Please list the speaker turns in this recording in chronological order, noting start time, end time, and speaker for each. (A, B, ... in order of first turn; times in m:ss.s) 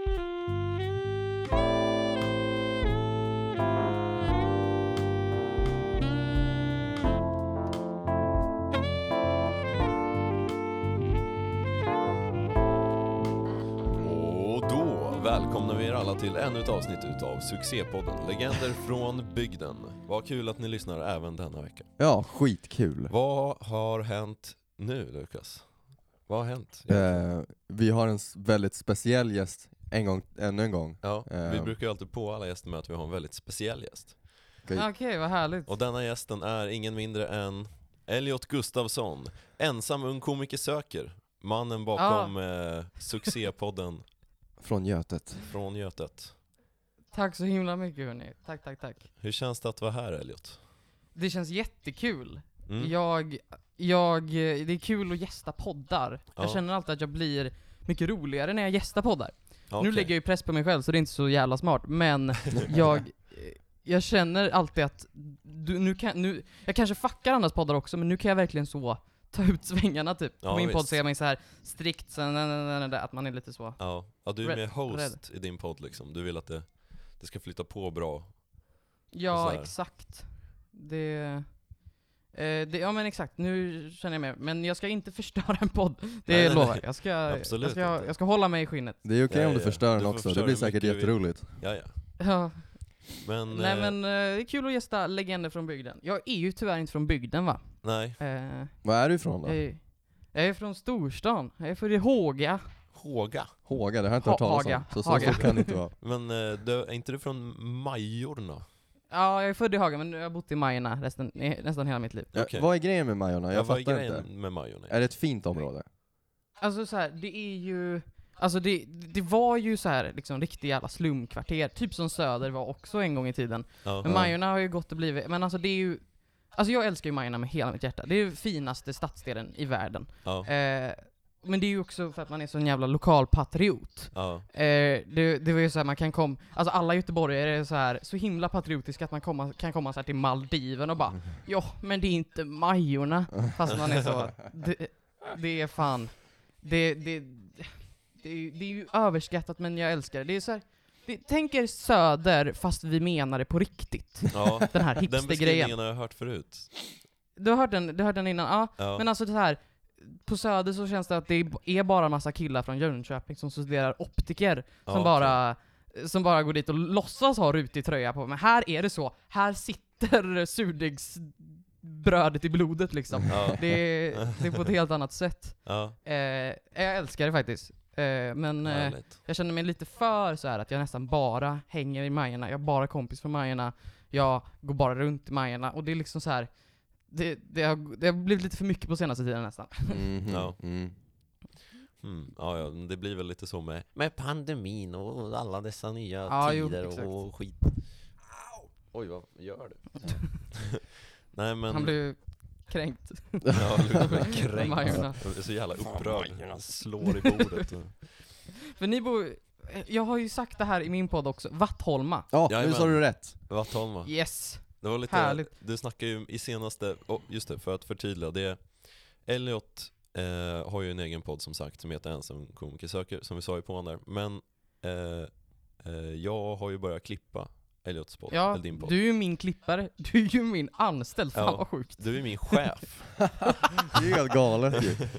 0:14.0-0:21.9 A
0:22.0-0:23.1 B
0:23.1-0:27.2 A
0:26.9-0:31.8 B
0:31.0-0:34.4 A
0:34.7-0:35.7 C
0:35.6-0:44.0 A
0:41.9-0:42.4 C
0:44.6-0:45.4 B
0:45.4-0:46.4 A
0:47.1-0:49.1 C
0:49.2-0:50.6 A
0:51.1-1:15.2 C
0:52.7-0:52.9 A
0:59.7-1:00.1 A
1:10.4-1:11.0 A
1:13.8-1:18.8 A
1:19.1-1:21.7 C
1:19.3-1:19.7 A
1:22.3-1:29.0 C
1:26.3-1:28.2 A
1:29.0-1:31.5 B
1:29.3-1:31.9 A
1:32.2-1:42.7 C
1:33.2-1:34.0 A
1:37.8-1:38.2 A
1:38.8-1:39.6 B
1:42.9-1:43.6 A
1:43.6-1:45.9 B
1:44.2-1:45.8 C
1:45.1-1:48.6 A
1:49.1-1:52.3 C
1:52.3-1:55.0 A
1:52.3-1:55.8 B
1:56.6-2:35.8 C
2:03.8-2:04.1 A
2:04.0-2:04.3 B
2:10.2-2:10.5 A
2:14.1-2:14.5 A
2:23.7-2:24.2 A
2:34.3-2:36.9 A
2:37.4-3:10.0 C
2:38.8-2:39.0 A
2:44.8-2:45.4 A
2:53.1-2:53.5 B
2:53.3-2:54.7 A
2:55.6-2:56.0 A
2:58.6-2:59.2 A
3:09.9-3:10.9 B
3:10.3-3:10.6 A
3:12.0-3:18.2 A
3:16.3-3:17.2 C
3:18.9-3:20.8 A
3:20.0-3:20.3 C
3:21.3-3:22.0 A
3:21.7-3:25.2 C
3:23.5-3:28.2 A
3:26.3-3:26.6 B
3:28.7-3:32.3 C
3:32.3-3:33.5 B
3:32.5-3:49.0 A
3:34.0-3:35.5 C
3:48.3-3:52.6 C
3:51.3-3:53.4 A
3:53.9-3:55.0 B